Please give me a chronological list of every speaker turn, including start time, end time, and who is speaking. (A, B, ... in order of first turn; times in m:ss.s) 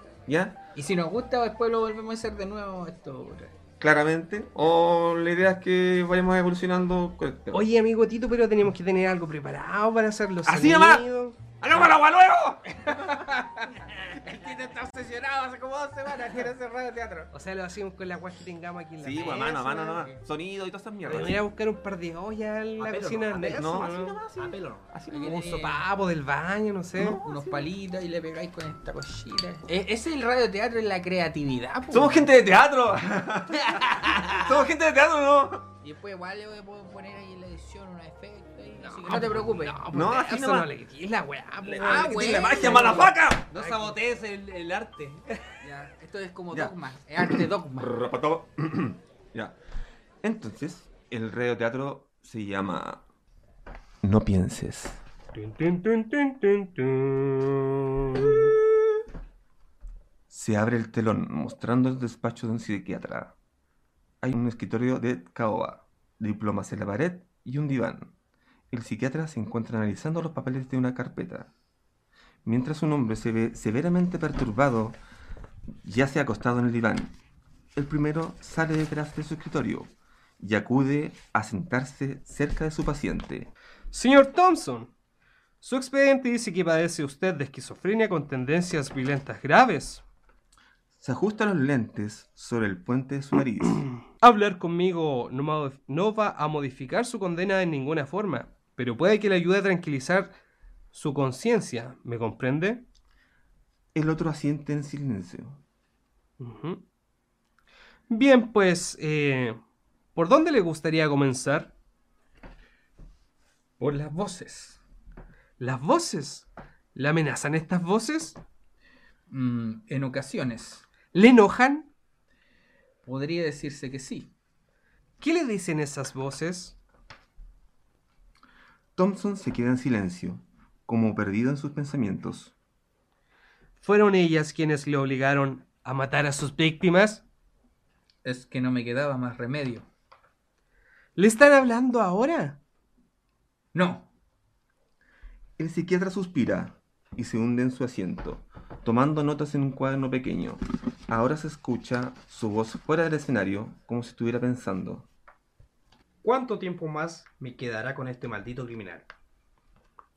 0:00.3-0:00.6 A
0:00.7-0:03.5 B
0:03.8-0:07.6 A
0:07.5-0:11.4 C
0:10.4-0:11.0 A
0:11.6-0:13.2 A
0:12.8-0:17.3 B
0:17.3-0:19.9 C
0:19.0-0:21.4 A
0:19.6-0:20.2 B
0:21.0-0:24.2 C
0:22.8-0:23.7 D
0:23.4-0:25.4 A
0:24.4-0:24.9 D
0:25.1-0:25.8 B
0:25.2-0:27.2 C
0:27.0-0:27.5 A
0:27.2-0:32.3 B
0:31.9-0:35.6 A
0:35.8-0:39.8 B
0:38.8-0:43.1 C
0:39.9-0:40.7 A
0:41.6-0:43.5 A
0:41.8-0:44.0 B
0:42.7-0:45.3 D
0:45.6-0:47.9 B
0:46.5-0:49.6 A
0:50.2-0:53.0 A
0:54.0-0:55.0 A
0:55.3-0:58.5 C
1:00.3-1:03.3 A
1:04.2-1:08.1 A
1:08.7-1:11.5 A
1:12.4-1:15.0 A
1:15.8-1:17.2 A
1:17.7-1:23.5 A
1:23.9-1:24.9 C
1:25.6-1:30.0 C
1:31.0-1:33.8 A
1:34.1-1:40.3 C
1:40.9-1:42.8 C
1:43.9-1:45.6 A
1:46.4-1:46.8 C
1:48.1-1:49.6 C
1:50.1-1:51.7 C
1:53.8-1:54.8 B
1:55.6-1:58.4 C
1:59.3-2:00.9 B
2:01.1-2:01.9 C
2:03.0-2:04.3 B
2:05.2-2:06.8 C
2:09.0-2:12.5 A
2:13.8-2:17.2 C
2:18.2-2:19.8 B
2:21.2-2:22.6 C
2:23.7-2:24.1 B
2:25.6-2:35.1 A
2:36.2-2:39.1 D